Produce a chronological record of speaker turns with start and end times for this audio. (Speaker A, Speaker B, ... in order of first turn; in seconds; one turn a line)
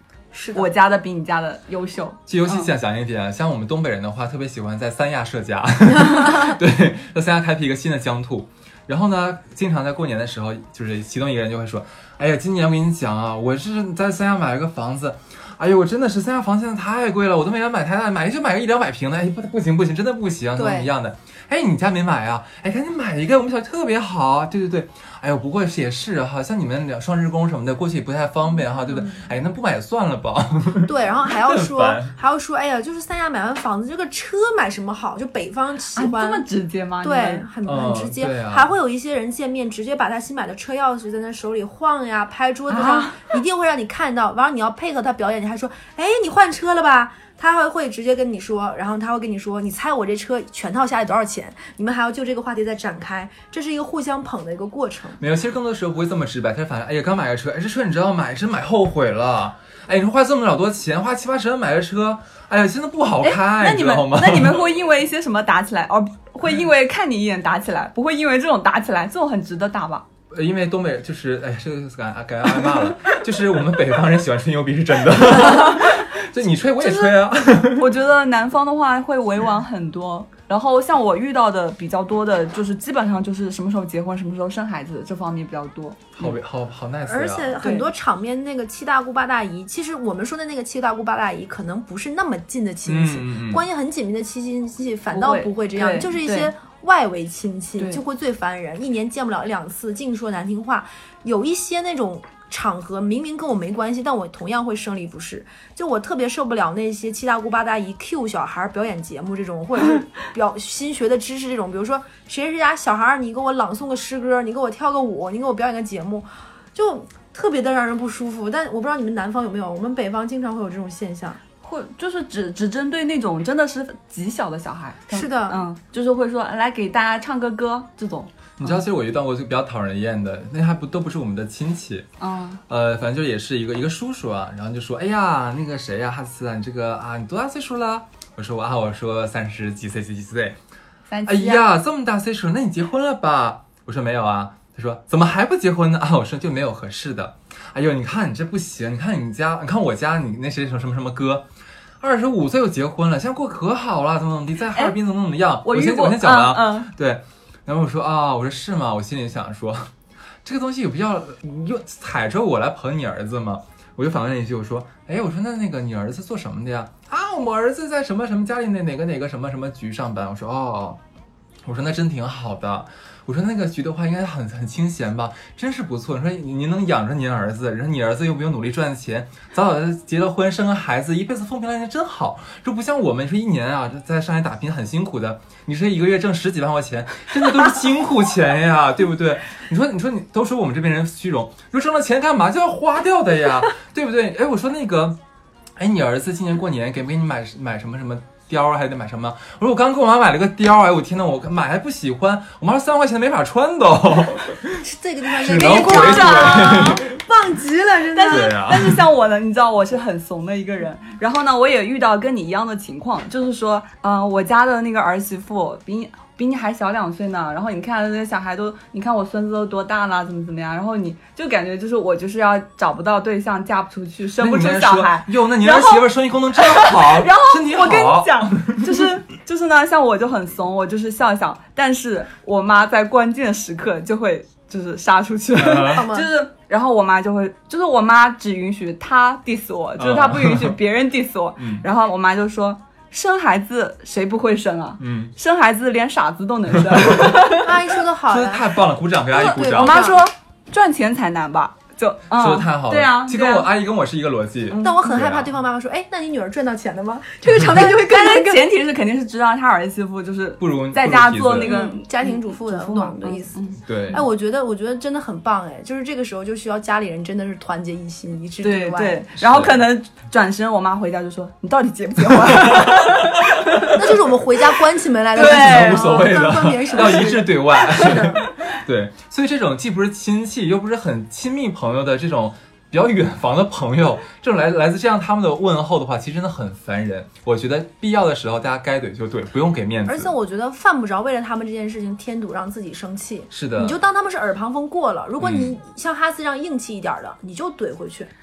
Speaker A: 0.3-0.7
Speaker B: 0.5-2.7
Speaker C: 2.3-32.1
Speaker A: 20.5-20.9
Speaker A: 28.9-29.2
Speaker A: 30.8-36.4
Speaker B: 35.9-37.5
Speaker A: 37.0-55.2
Speaker C: 37.6-38.7
Speaker B: 42.7-43.3
Speaker C: 55.2-64.7
Speaker B: 63.2-70.0
Speaker C: 70.3-77.9
Speaker B: 75.3-76.1
Speaker B: 76.8-77.2
Speaker B: 77.7-86.3
Speaker C: 86.2-87.6
Speaker A: 87.0-121.4
Speaker B: 87.6-87.9
Speaker C: 92.9-93.6
Speaker B: 95.1-96.5
Speaker B: 121.6-128.8
Speaker A: 125.1-125.6
Speaker C: 128.6-132.1
Speaker B: 132.2-132.6
Speaker C: 132.7-140.6
Speaker B: 141.1-141.7
Speaker C: 141.2-151.5
Speaker C: 152.0-159.9
Speaker B: 155.6-156.9
Speaker C: 160.4-171.0
Speaker C: 171.6-195.2
Speaker C: 195.8-207.0
Speaker A: 204.8-208.6
Speaker B: 205.6-207.0
Speaker B: 208.1-247.9
Speaker C: 208.3-209.1
Speaker C: 224.4-229.1
Speaker C: 235.5-236.1
Speaker A: 235.8-236.3
Speaker C: 240.0-240.8
Speaker C: 241.6-241.8
Speaker C: 245.0-245.3
Speaker C: 246.8-247.5
Speaker A: 247.5-248.7
Speaker C: 248.3-250.1
Speaker B: 249.3-253.7
Speaker A: 249.4-250.2
Speaker C: 252.3-255.5
Speaker B: 254.7-255.2
Speaker A: 254.8-258.7
Speaker B: 257.7-264.2
Speaker C: 260.6-261.8
Speaker A: 261.6-269.2
Speaker C: 263.8-264.2
Speaker B: 268.6-274.1
Speaker C: 269.4-269.9
Speaker C: 272.5-273.3
Speaker A: 273.8-278.5
Speaker B: 275.3-276.3
Speaker C: 275.4-290.3
Speaker B: 277.8-278.4
Speaker A: 290.1-298.3
Speaker C: 293.5-294.0
Speaker C: 295.4-295.8